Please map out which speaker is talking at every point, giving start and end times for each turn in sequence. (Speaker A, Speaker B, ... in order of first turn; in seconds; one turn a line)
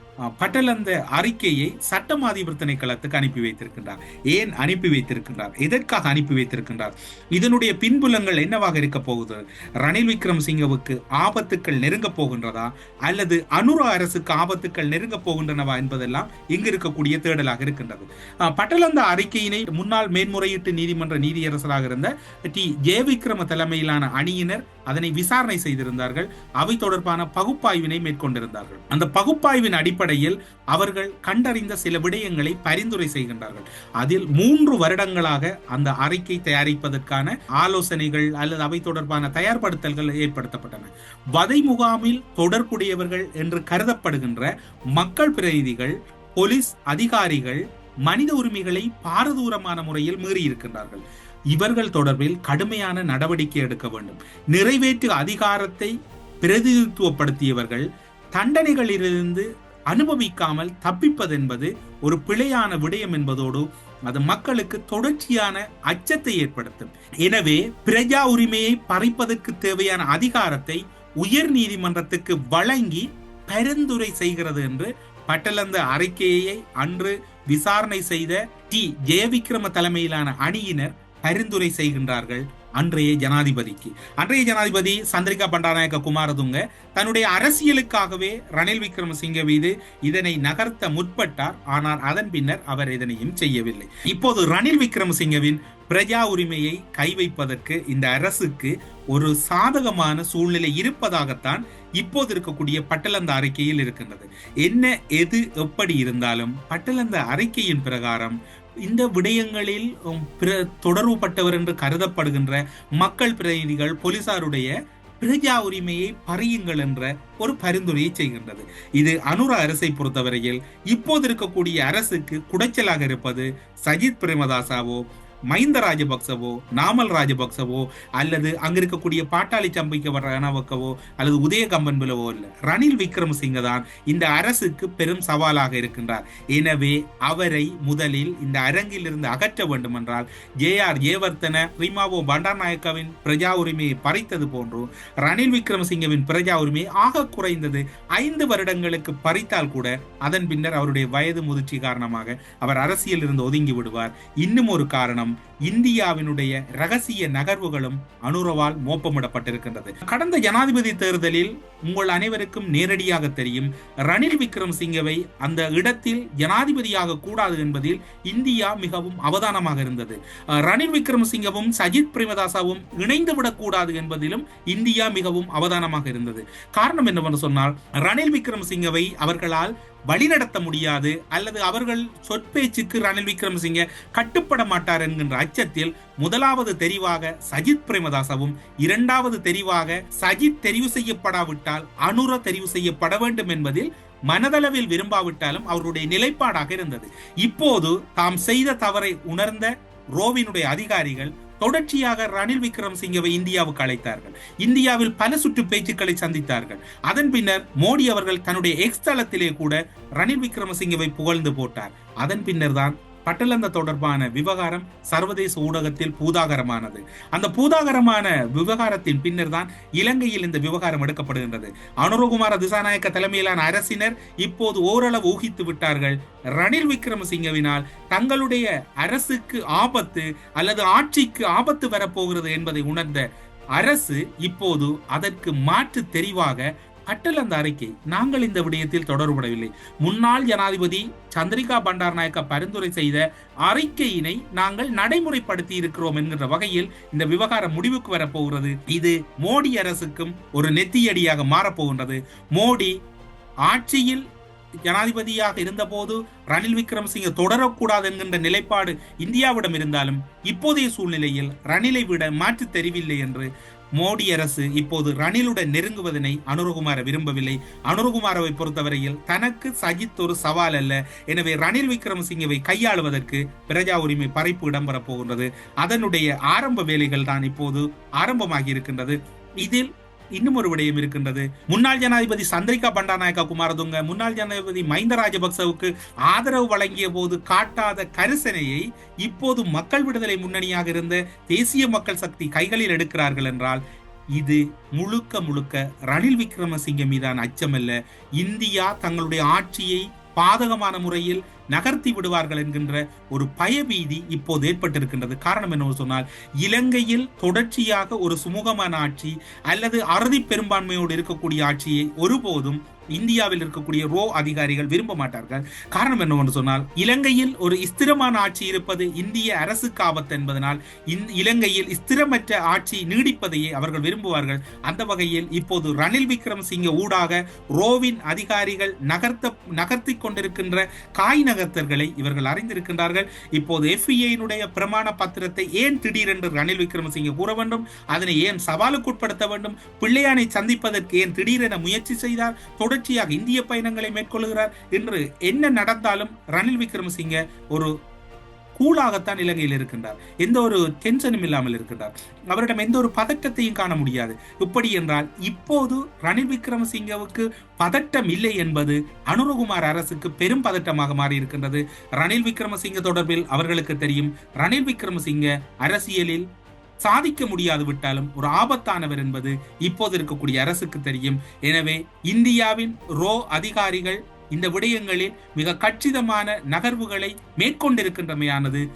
Speaker A: 0.4-233.2
Speaker A: 233.8-252.9
Speaker A: 253.7-254.2
Speaker A: 254.9-293.8
Speaker A: 294.4-347.9
Speaker A: 348.8-366.4
Speaker A: 367.0-378.8